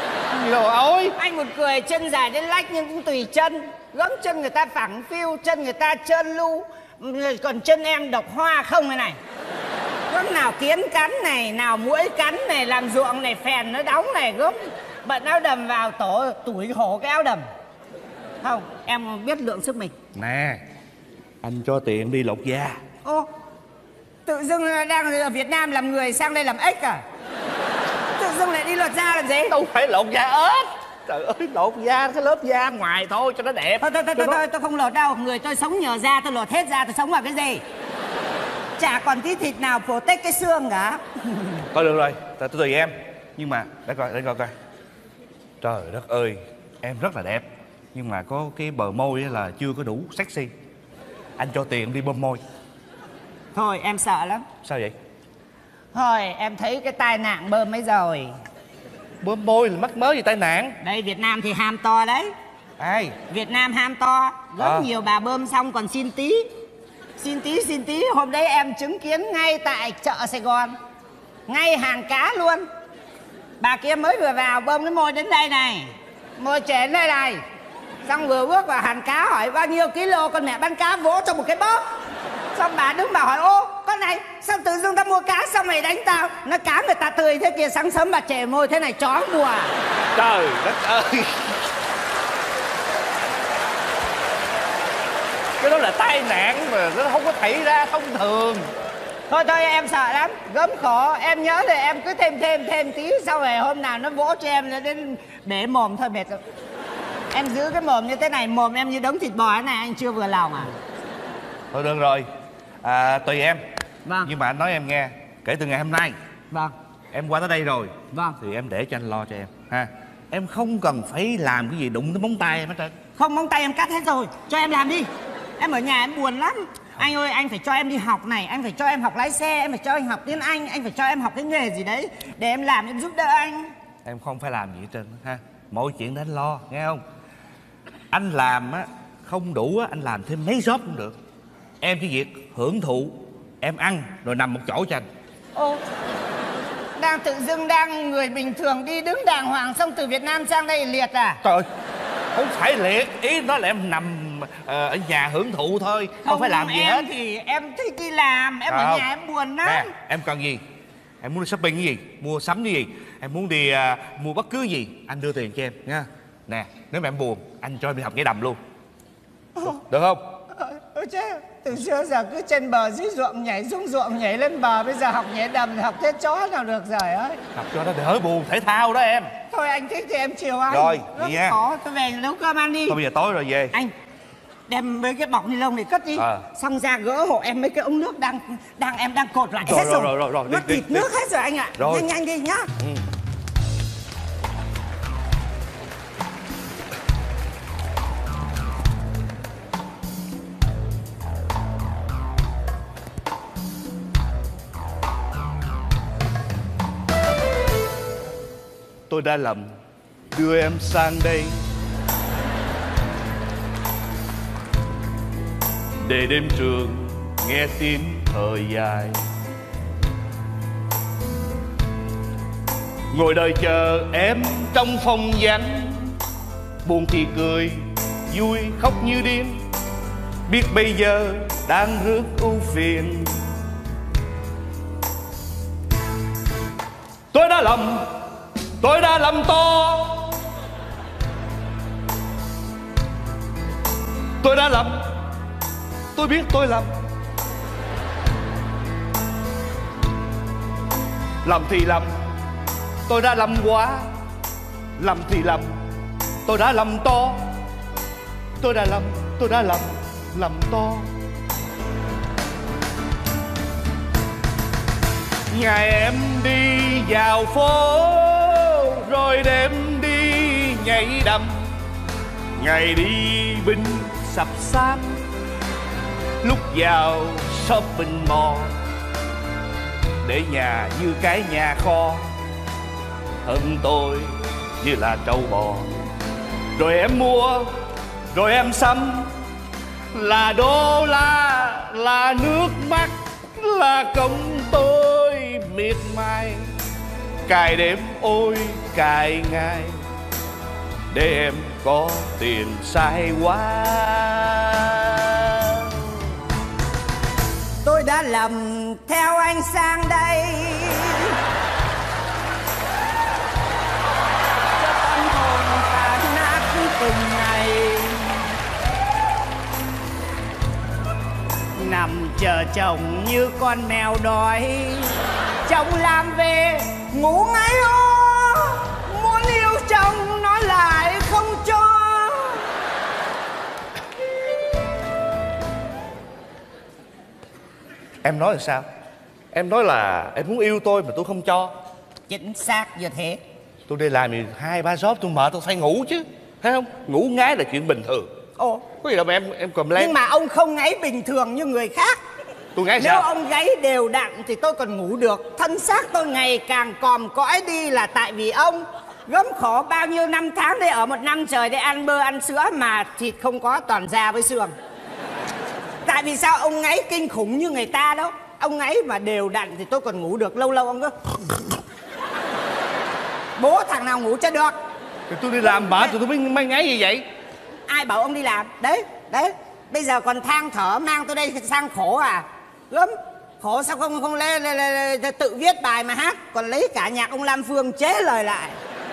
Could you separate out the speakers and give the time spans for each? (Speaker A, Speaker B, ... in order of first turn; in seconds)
Speaker A: 0.3-1.1, 20.1-20.6, 21.4-22.8, 29.5-34.4, 41.7-44.5, 45.6-50.5, 51.4-52.4, 54.6-54.9, 59.2-60.8, 62.8-63.2, 64.6-64.9, 90.1-91.5, 95.6-98.7, 111.7-112.3, 112.8-113.6, 114.2-116.2, 117.1-122.9, 134.0-137.0, 138.1-141.2, 141.8-145.1, 151.4-151.7, 152.3-157.1, 158.7-159.1, 159.6-160.6, 161.2-168.6, 169.6-170.2, 177.5-179.3, 180.7-181.6, 182.9-183.7, 186.2-186.4, 189.6-191.1, 191.8-192.1, 192.8-193.0, 209.1-209.7, 210.3-211.6, 216.0-219.2, 223.1-226.2, 226.8-229.6, 230.5-233.4, 237.3-238.2, 238.8-240.4, 244.4-245.2, 246.1-246.9, 251.4-252.2, 253.1-254.1, 255.0-255.8, 256.4-257.5, 258.6-261.1, 265.5-271.7, 272.6-275.2, 276.4-278.7, 280.2-282.3, 283.4-285.9, 286.8-287.8, 288.3-289.3, 290.1-296.7, 297.4-300.0, 301.1-306.1, 338.2-338.9, 339.5-341.7, 343.9-348.3, 348.9-350.2, 352.7-353.3, 375.3-377.2
Speaker B: 1.2-9.2, 10.1-17.4, 18.4-19.9, 24.2-27.0, 28.1-29.5, 33.8-37.6, 38.8-41.6, 53.5-54.5, 55.9-58.3, 60.8-62.3, 63.3-66.5, 67.2-70.8, 71.5-72.7, 73.6-77.4, 78.0-81.8, 82.5-89.7, 99.3-106.4, 107.3-110.7, 114.0-114.3, 118.1-118.4, 123.2-133.7, 145.5-145.8, 147.0-151.4, 156.2-159.9, 170.5-177.4, 179.5-183.0, 184.7-192.7, 307.8-311.4, 314.8-318.4, 321.7-332.6, 342.3-343.4, 348.6-348.9, 349.9-352.2, 353.0-364.7, 366.1-371.1, 373.6-374.8, 375.8-376.1, 377.9-388.8